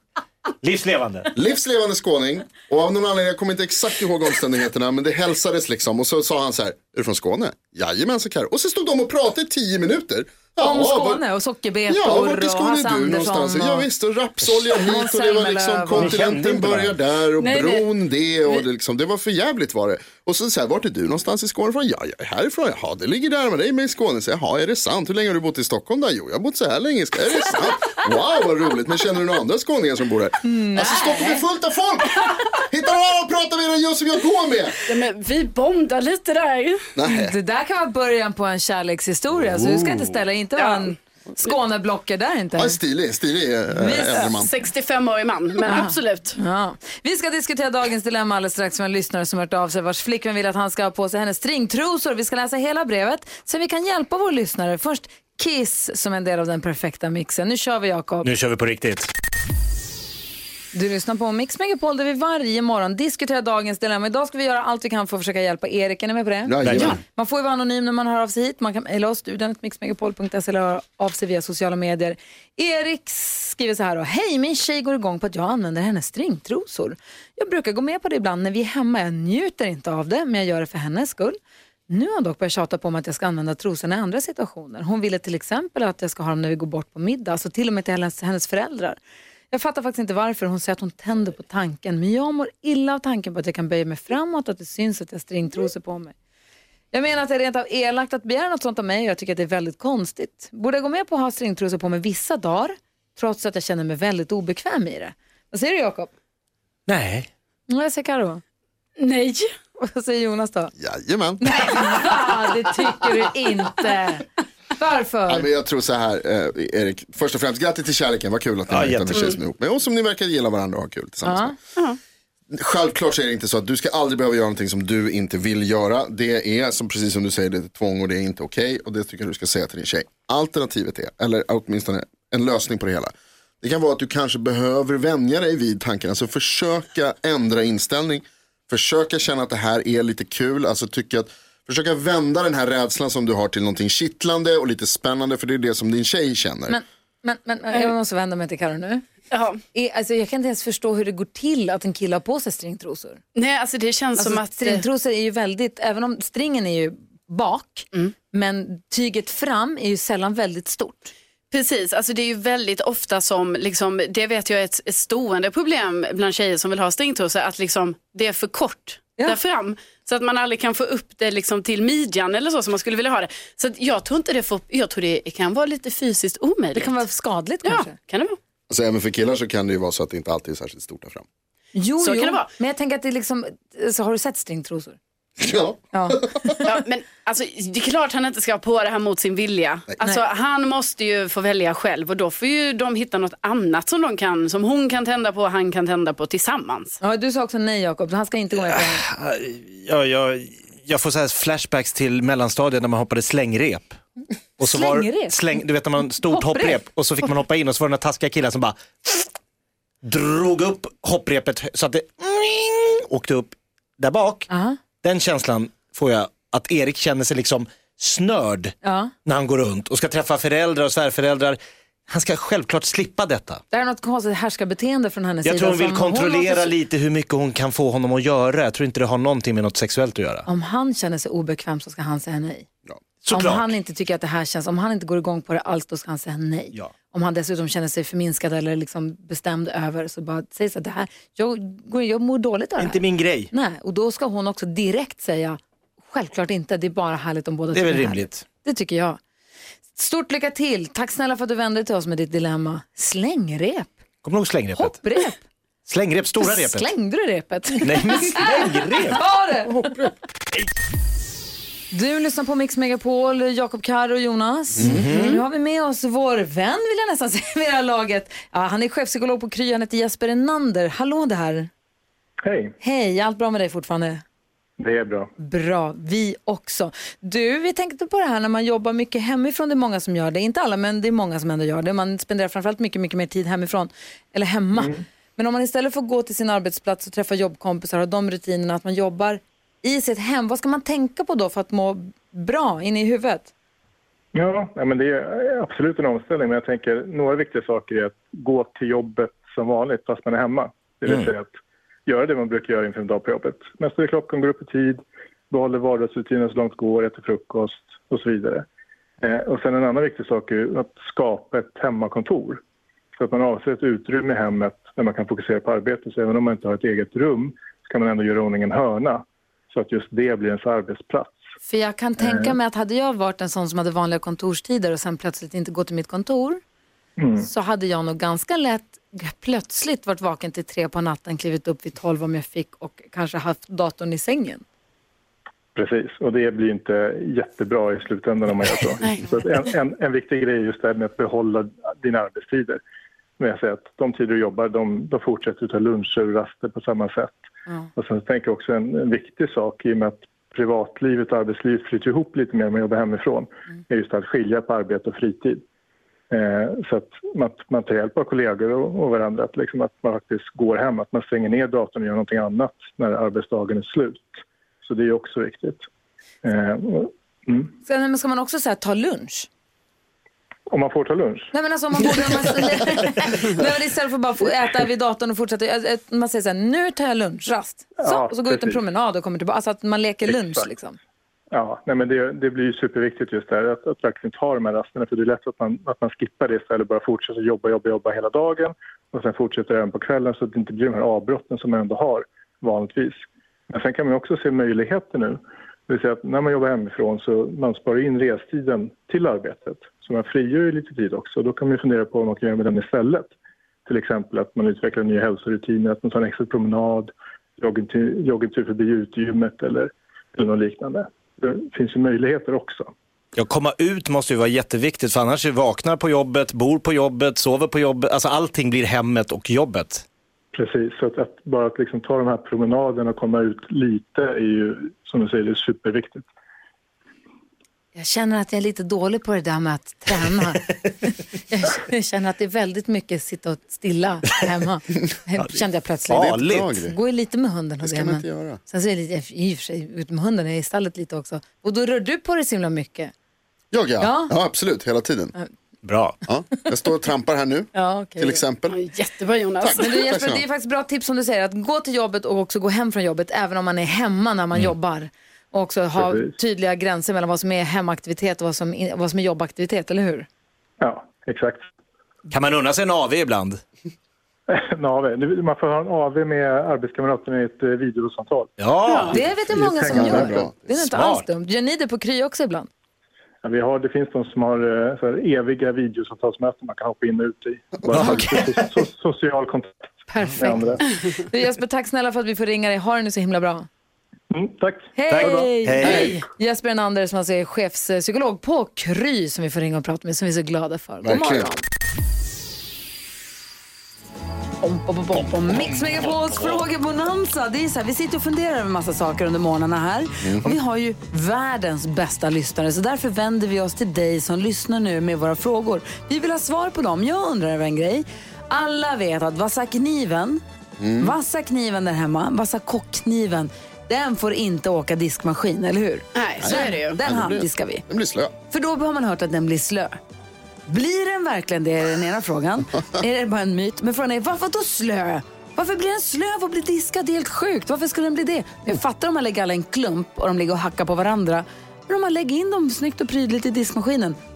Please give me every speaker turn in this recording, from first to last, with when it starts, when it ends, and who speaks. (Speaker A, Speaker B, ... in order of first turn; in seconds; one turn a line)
Speaker A: 0.6-1.3
Speaker B: 1.3-11.2
Speaker C: 10.6-13.8
Speaker B: 11.9-34.8
Speaker C: 14.7-16.2
Speaker A: 16.0-16.9
Speaker D: 17.4-17.8
Speaker C: 30.4-31.4
Speaker D: 34.9-36.9
Speaker B: 36.9-37.3
Speaker C: 37.1-42.8
Speaker D: 40.6-40.9
Speaker B: 42.6-44.5
Speaker C: 43.7-44.3
Speaker D: 44.1-46.4
Speaker C: 45.6-58.3
Speaker A: 58.2-59.1
Speaker C: 60.7-81.4
Speaker B: 66.5-67.0
Speaker A: 66.6-66.9
Speaker C: 81.9-89.0
Speaker C: 89.5-96.1
Speaker C: 96.9-106.1
Speaker A: 106.9-107.3
Speaker C: 107.7-108.4
Speaker D: 109.0-109.5
Speaker C: 109.8-110.7
Speaker B: 110.8-111.7
Speaker C: 111.4-115.5
Speaker B: 115.3-121.6
Speaker A: 118.7-119.3
Speaker C: 121.2-121.5
Speaker B: 122.5-146.8
Speaker C: 146.7-149.0
Speaker D: 149.3-149.6
Speaker C: 149.7-153.2
Speaker D: 153.3-154.8
Speaker C: 154.2-161.1
Speaker D: 161.5-177.0
Speaker C: 176.7-177.9
Speaker D: 177.6-178.4
Speaker B: 178.7-181.2
Speaker C: 181.7-185.0
Speaker D: 182.0-182.5
Speaker B: 185.4-186.6
Speaker C: 185.9-186.7
Speaker D: 186.6-197.0
Speaker C: 197.0-199.0
Speaker A: 198.7-204.0
Speaker A: 204.6-209.3
Speaker C: 204.6-205.4
Speaker C: 206.3-206.8
Speaker A: 210.0-214.5
Speaker C: 214.5-214.8
Speaker A: 215.0-223.6
Speaker C: 218.8-219.1
Speaker C: 223.7-226.7
Speaker A: 225.4-230.4
Speaker C: 230.4-232.7
Speaker A: 233.2-233.7
Speaker C: 233.3-245.6
Speaker A: 242.8-243.5
Speaker C: 246.1-249.2
Speaker A: 247.7-248.4
Speaker C: 249.9-254.0
Speaker A: 254.2-255.0
Speaker C: 254.7-255.4
Speaker A: 255.8-256.9
Speaker C: 256.4-259.9
Speaker A: 257.8-259.2
Speaker C: 261.9-271.7
Speaker A: 264.8-265.4
Speaker E: 272.4-272.7
Speaker C: 272.8-274.2
Speaker E: 274.8-275.3
Speaker C: 275.4-293.5
Speaker E: 294.3-301.5
Speaker E: 302.1-308.6
Speaker E: 309.2-312.6
Speaker E: 313.1-321.4
Speaker C: 321.6-326.6
Speaker E: 322.2-322.5
Speaker E: 327.2-327.5
Speaker C: 327.4-334.6
Speaker E: 335.7-342.8
Speaker E: 343.4-347.4
Speaker E: 347.9-355.6
Speaker E: 356.3-365.9
Speaker E: 366.4-367.7
Speaker C: 367.8-369.5
Speaker E: 370.7-371.5
Speaker C: 371.5-381.0
Speaker E: 378.0-378.8
Speaker E: 380.3-380.6
Speaker E: 381.5-403.3
Speaker E: 403.9-412.9
Speaker A: 413.4-420.0
Speaker E: 420.5-426.2
Speaker C: 427.9-443.1
Speaker A: 436.1-436.7
Speaker B: 436.3-436.9
Speaker B: 437.8-438.6
Speaker B: 443.7-445.3
Speaker C: 444.0-444.3
Speaker A: 445.8-446.1
Speaker B: 446.3-448.8
Speaker C: 447.7-448.4
Speaker D: 448.7-450.1
Speaker B: 449.6-450.4
Speaker C: 449.8-460.3
Speaker E: 455.9-456.3
Speaker E: 460.8-461.6
Speaker A: 462.3-463.6
Speaker E: 464.5-468.5
Speaker A: 468.6-469.2
Speaker D: 468.9-469.1
Speaker C: 469.1-472.7
Speaker E: 469.5-470.4
Speaker B: 469.9-470.6
Speaker A: 470.7-471.2
Speaker E: 473.4-480.8
Speaker A: 477.9-478.7
Speaker B: 477.9-478.2
Speaker C: 480.1-483.7
Speaker E: 484.3-486.0
Speaker C: 484.9-491.6
Speaker A: 485.1-486.1
Speaker B: 491.0-491.5
Speaker C: 494.6-510.4
Speaker B: 500.2-500.5
Speaker B: 510.8-511.1
Speaker C: 511.0-517.8
Speaker D: 516.1-517.0
Speaker B: 516.4-518.3
Speaker C: 518.5-520.0
Speaker C: 520.7-534.2